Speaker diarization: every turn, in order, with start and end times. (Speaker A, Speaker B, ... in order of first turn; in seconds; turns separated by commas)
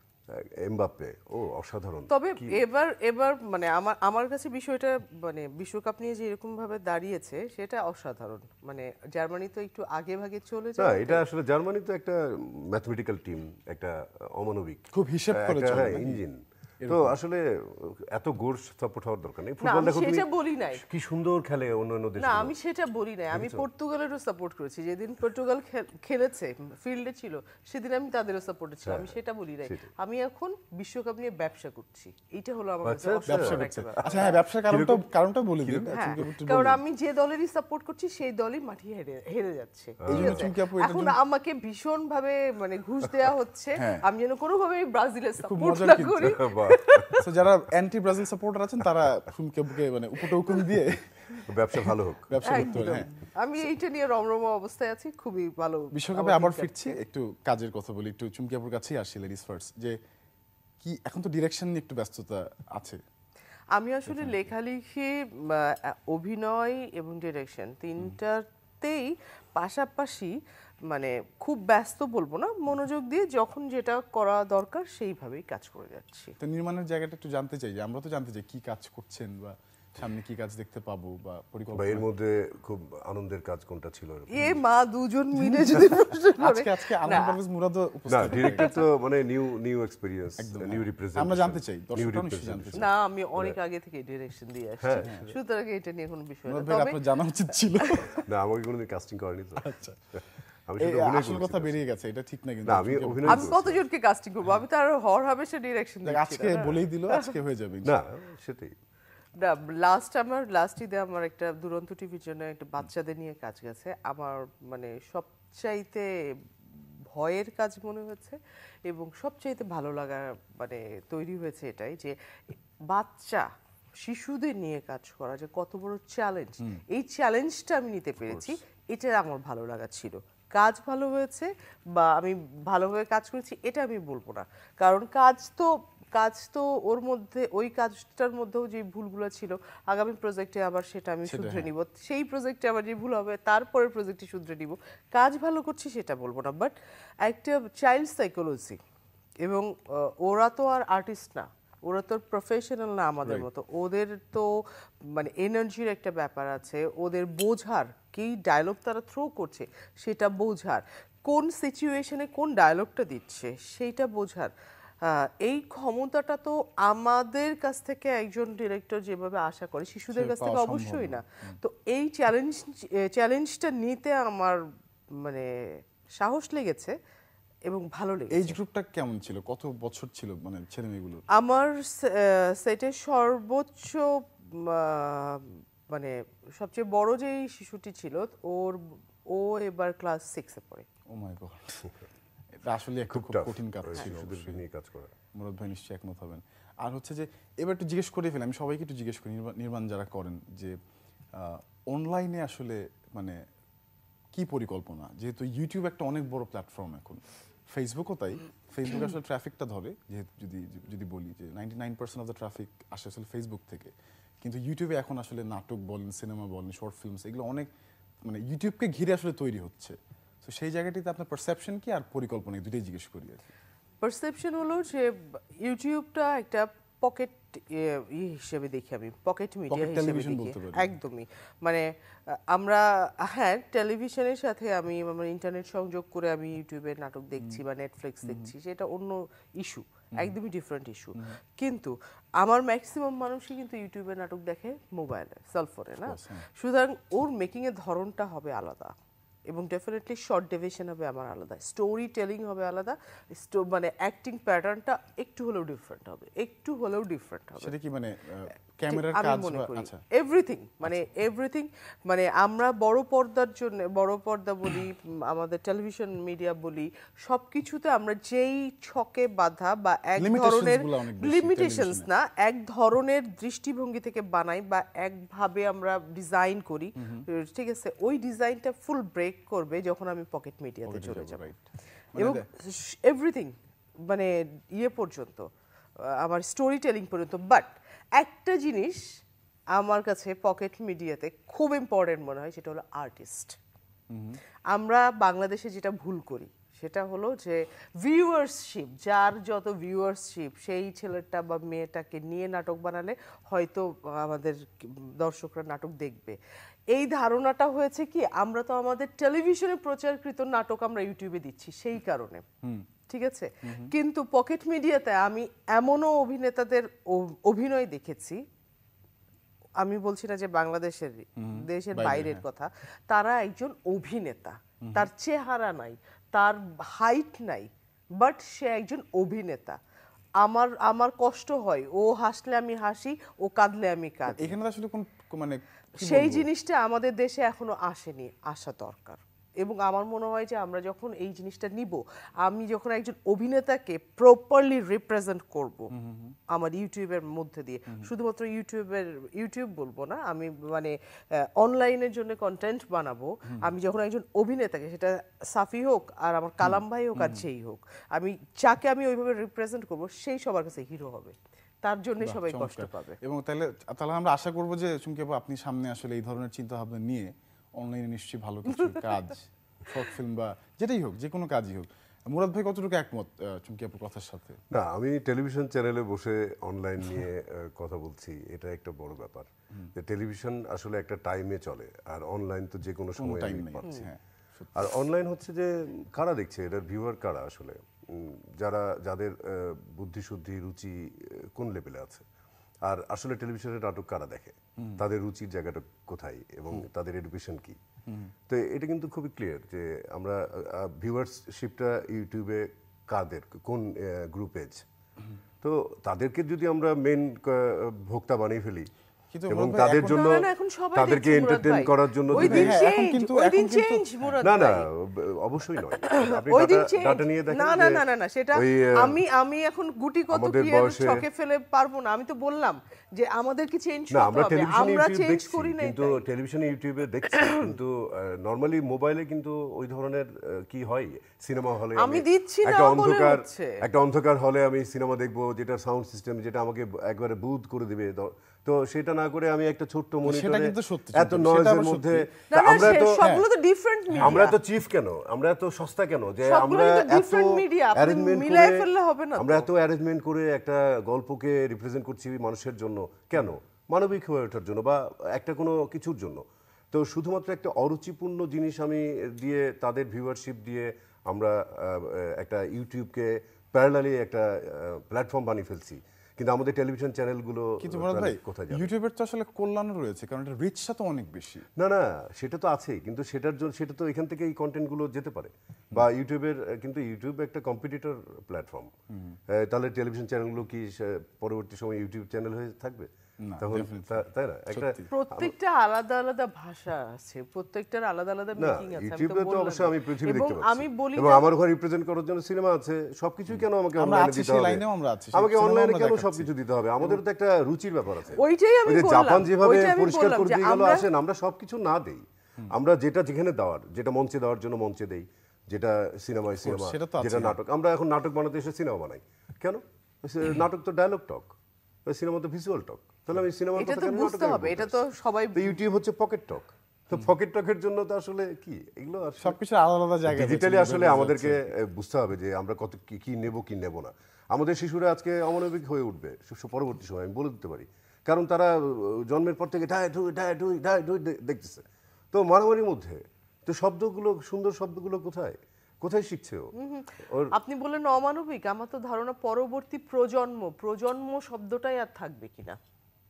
Speaker A: 0.3-2.6, Speaker B: 2.1-11.2, Speaker A: 10.8-22.5, Speaker C: 14.9-16.2, Speaker C: 16.8-17.2, Speaker B: 19.6-20.8, Speaker B: 22.2-34.4, Speaker A: 23.3-23.6, Speaker A: 28.8-29.1, Speaker A: 29.6-29.9, Speaker A: 32.8-35.0, Speaker C: 33.3-36.8, Speaker A: 35.6-36.3, Speaker B: 35.9-47.2, Speaker A: 40.0-40.5, Speaker C: 40.1-41.1, Speaker C: 43.8-44.0, Speaker C: 45.4-46.3, Speaker A: 46.2-47.2, Speaker C: 47.2-53.1, Speaker A: 51.5-53.0, Speaker B: 52.4-57.0, Speaker C: 55.9-60.0, Speaker C: 60.8-63.0, Speaker B: 63.7-70.3, Speaker C: 64.0-64.4, Speaker B: 70.9-76.3, Speaker C: 76.4-82.1, Speaker A: 81.8-84.6, Speaker B: 84.3-87.4, Speaker C: 85.3-88.7, Speaker A: 88.1-93.6, Speaker B: 88.3-88.8, Speaker C: 90.4-92.9, Speaker B: 92.8-97.0, Speaker A: 94.8-95.3, Speaker C: 95.0-95.3, Speaker C: 96.5-98.2, Speaker B: 97.8-98.1, Speaker A: 98.2-101.8, Speaker C: 99.6-100.2, Speaker C: 100.8-103.5, Speaker A: 102.7-103.7, Speaker B: 103.3-107.3, Speaker C: 106.0-108.0, Speaker A: 107.8-108.7, Speaker B: 109.4-116.1, Speaker B: 117.1-122.1, Speaker B: 122.9-123.5, Speaker B: 124.0-148.8, Speaker C: 128.3-128.5, Speaker C: 141.2-141.7, Speaker B: 149.4-154.5, Speaker B: 155.1-164.5, Speaker B: 165.0-174.6, Speaker C: 170.1-171.6, Speaker B: 175.2-175.5, Speaker B: 176.2-176.9, Speaker B: 177.7-178.6, Speaker C: 178.3-181.2, Speaker B: 181.3-190.9, Speaker C: 191.1-191.9, Speaker C: 192.6-194.6, Speaker A: 193.1-195.1, Speaker C: 195.3-200.8, Speaker C: 201.3-203.4, Speaker C: 204.3-217.7, Speaker C: 218.2-223.5, Speaker B: 224.0-248.9, Speaker C: 229.7-231.0, Speaker C: 238.2-238.5, Speaker C: 246.0-246.4, Speaker B: 249.5-257.7, Speaker C: 257.6-260.0, Speaker B: 258.9-281.4, Speaker C: 270.2-272.1, Speaker C: 277.0-277.2, Speaker C: 280.9-281.6, Speaker C: 282.1-282.4, Speaker B: 282.2-285.5, Speaker B: 286.0-289.2, Speaker B: 289.7-293.6, Speaker C: 294.1-294.4, Speaker B: 294.7-306.4, Speaker B: 306.9-312.4, Speaker B: 313.1-318.4, Speaker C: 313.6-313.9, Speaker B: 319.8-329.8, Speaker C: 321.4-322.4, Speaker C: 324.8-325.1, Speaker B: 330.4-334.5, Speaker C: 334.4-336.5, Speaker B: 336.0-345.9, Speaker C: 345.9-346.4, Speaker B: 346.5-363.2, Speaker C: 356.6-357.4, Speaker C: 362.2-374.6, Speaker A: 374.7-384.1, Speaker C: 383.1-384.9, Speaker A: 384.8-392.2, Speaker A: 392.8-397.8, Speaker C: 394.8-395.0, Speaker C: 398.1-398.3, Speaker A: 398.5-404.8, Speaker A: 405.6-408.9, Speaker C: 409.3-410.4, Speaker A: 409.5-412.8, Speaker B: 409.8-414.9, Speaker C: 412.3-414.3, Speaker A: 414.4-418.0, Speaker B: 416.0-426.2, Speaker A: 418.5-419.2, Speaker A: 420.3-421.2, Speaker A: 424.1-443.2, Speaker B: 431.9-433.8, Speaker C: 440.2-442.3, Speaker B: 442.5-444.5, Speaker C: 443.0-443.4, Speaker C: 444.1-444.5, Speaker A: 444.2-448.9, Speaker B: 446.4-449.7, Speaker A: 449.4-468.9, Speaker C: 467.8-471.6, Speaker A: 471.8-478.9, Speaker C: 479.1-479.4, Speaker A: 479.5-485.5, Speaker C: 483.4-485.1, Speaker B: 485.1-491.4, Speaker A: 488.6-494.8, Speaker C: 493.5-497.2, Speaker A: 495.3-511.5, Speaker B: 498.4-501.1, Speaker C: 506.6-507.6, Speaker A: 512.1-515.0, Speaker B: 513.8-515.8, Speaker A: 515.5-519.5, Speaker C: 519.4-521.7, Speaker A: 520.3-536.7, Speaker B: 536.8-542.8, Speaker A: 537.2-537.5